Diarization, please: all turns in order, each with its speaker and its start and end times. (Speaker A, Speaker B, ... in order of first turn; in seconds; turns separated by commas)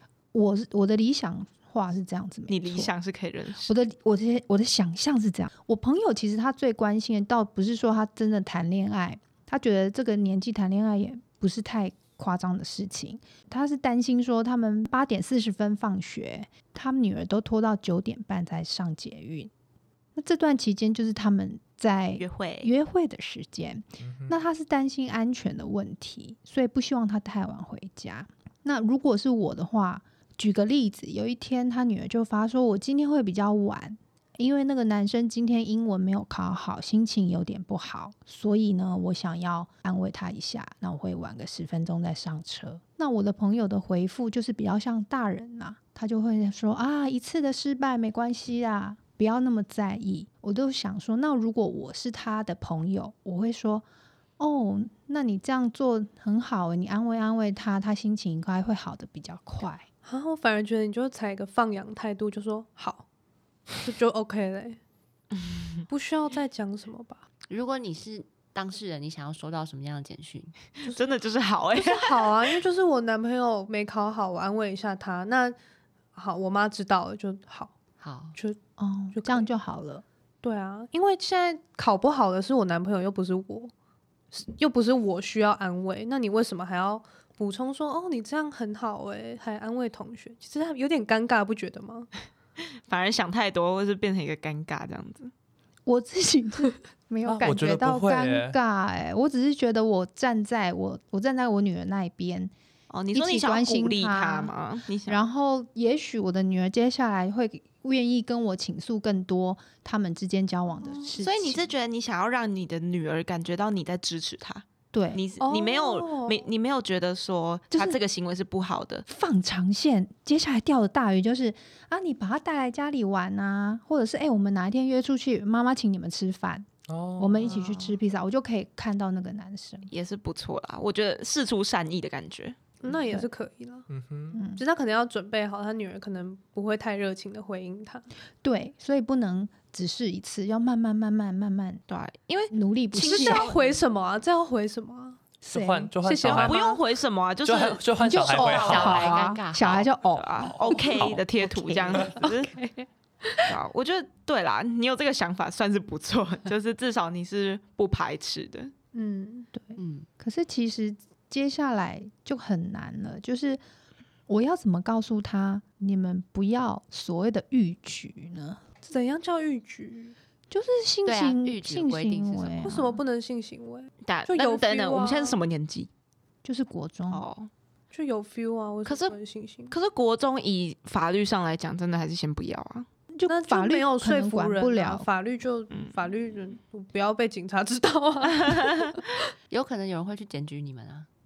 Speaker A: 0.3-2.9, Speaker B: 2.5-3.7, Speaker A: 3.6-19.5, Speaker A: 20.1-53.8, Speaker B: 22.2-22.7, Speaker C: 24.0-24.4, Speaker A: 54.4-59.8, Speaker D: 60.0-63.0, Speaker D: 63.8-64.8, Speaker D: 65.9-67.2, Speaker E: 67.5-70.5, Speaker B: 70.8-72.5, Speaker D: 71.7-75.5, Speaker D: 76.1-77.7, Speaker E: 78.0-78.3, Speaker A: 78.8-80.0, Speaker D: 79.1-79.5, Speaker D: 80.4-83.7, Speaker D: 84.3-92.1, Speaker B: 92.9-95.3, Speaker A: 95.8-102.5, Speaker C: 97.2-98.5, Speaker B: 102.9-105.2, Speaker A: 103.1-104.5, Speaker A: 105.1-111.7, Speaker B: 111.1-119.0, Speaker A: 114.9-115.2, Speaker D: 115.4-116.4, Speaker A: 117.7-118.0, Speaker A: 119.1-129.9, Speaker C: 126.9-127.4, Speaker B: 127.4-128.0, Speaker B: 129.9-132.7, Speaker D: 132.8-133.9, Speaker A: 132.9-133.3, Speaker C: 133.9-134.4, Speaker A: 134.3-134.6, Speaker D: 134.5-138.1, Speaker A: 138.4-141.8, Speaker B: 141.9-143.8, Speaker A: 142.5-143.5, Speaker D: 143.0-145.2, Speaker C: 145.4-146.6, Speaker A: 145.5-145.9, Speaker D: 146.0-146.8, Speaker B: 146.2-149.3, Speaker C: 147.4-149.0, Speaker A: 148.0-152.2, Speaker E: 148.5-149.8, Speaker B: 150.1-152.5, Speaker C: 150.4-151.2, Speaker D: 152.2-153.5, Speaker B: 153.4-158.7, Speaker D: 158.9-159.5, Speaker A: 159.5-163.6, Speaker E: 159.8-160.1, Speaker A: 164.3-168.6, Speaker D: 168.8-170.1, Speaker A: 170.5-173.0, Speaker E: 171.0-172.7, Speaker D: 172.6-175.4, Speaker B: 174.0-175.9, Speaker A: 176.4-177.2, Speaker B: 177.1-177.5, Speaker D: 177.9-179.7, Speaker B: 178.8-179.2, Speaker B: 179.7-182.9, Speaker A: 183.1-185.1, Speaker D: 183.3-189.1, Speaker B: 185.7-186.0, Speaker B: 188.5-189.0, Speaker E: 189.5-191.1